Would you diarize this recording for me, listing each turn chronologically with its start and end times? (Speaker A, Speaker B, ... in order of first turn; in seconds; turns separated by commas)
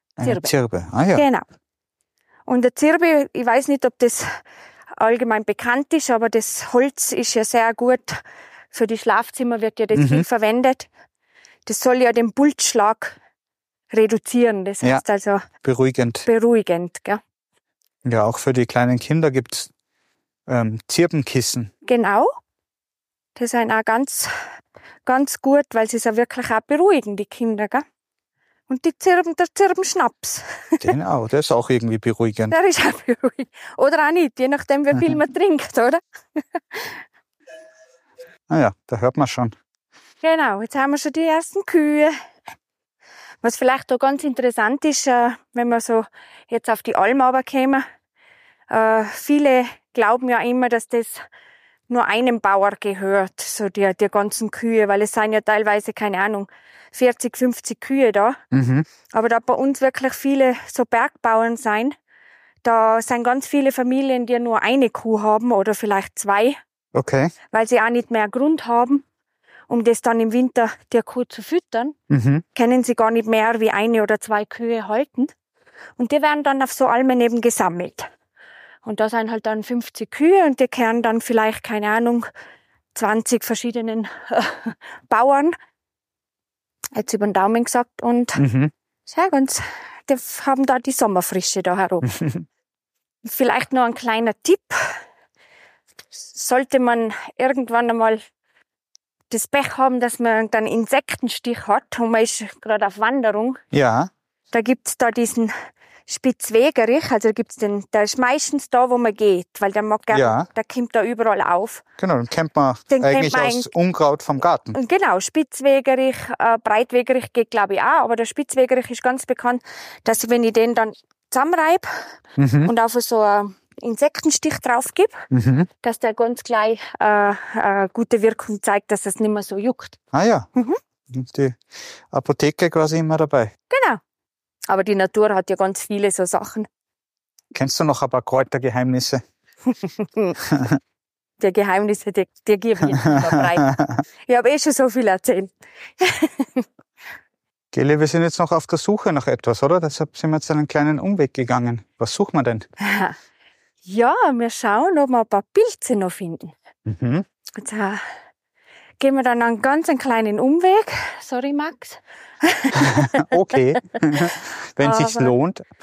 Speaker A: 0.2-1.2, Speaker B: 0.2-0.5, Speaker B: 1.1-1.4, Speaker B: 2.5-4.4, Speaker B: 5.0-10.9, Speaker A: 9.9-10.3, Speaker B: 11.7-13.2, Speaker B: 13.9-15.4, Speaker A: 15.6-16.2, Speaker B: 16.3-17.2, Speaker A: 18.0-19.7, Speaker A: 20.5-21.7, Speaker B: 21.9-22.3, Speaker B: 23.4-24.3, Speaker B: 25.1-27.9, Speaker B: 28.7-30.9, Speaker A: 30.8-32.5, Speaker B: 32.5-37.0, Speaker A: 38.5-39.5, Speaker B: 40.2-42.2, Speaker B: 43.4-47.9, Speaker B: 48.7-51.2, Speaker B: 51.9-58.4, Speaker A: 58.5-58.9, Speaker B: 59.1-62.0, Speaker B: 62.6-66.6, Speaker A: 66.9-67.3, Speaker B: 67.5-69.0, Speaker B: 69.7-72.0, Speaker A: 72.1-72.4, Speaker B: 72.5-75.3, Speaker B: 76.0-78.1, Speaker B: 78.8-82.3, Speaker B: 82.9-85.5, Speaker B: 87.0-88.4, Speaker A: 88.4-88.7, Speaker B: 89.1-92.1, Speaker A: 92.0-92.5, Speaker B: 93.2-95.0, Speaker B: 96.2-98.2, Speaker B: 99.3-103.6, Speaker A: 103.7-104.1, Speaker B: 104.5-105.5, Speaker B: 106.1-111.8, Speaker A: 110.1-110.5, Speaker A: 112.0-114.8, Speaker B: 112.9-113.7, Speaker B: 114.7-125.3, Speaker A: 122.4-122.7, Speaker A: 125.3-125.7, Speaker B: 125.8-130.0, Speaker A: 130.1-130.5, Speaker A: 131.1-131.6, Speaker A: 132.1-133.5, Speaker B: 133.7-134.0, Speaker B: 134.7-136.7, Speaker A: 137.5-139.2, Speaker B: 139.8-140.4, Speaker B: 141.4-143.7, Speaker B: 144.3-146.7, Speaker A: 147.7-152.7, Speaker B: 152.8-153.2, Speaker B: 153.8-156.5, Speaker A: 156.9-157.2, Speaker B: 157.6-158.0, Speaker B: 159.0-165.3, Speaker A: 163.0-165.7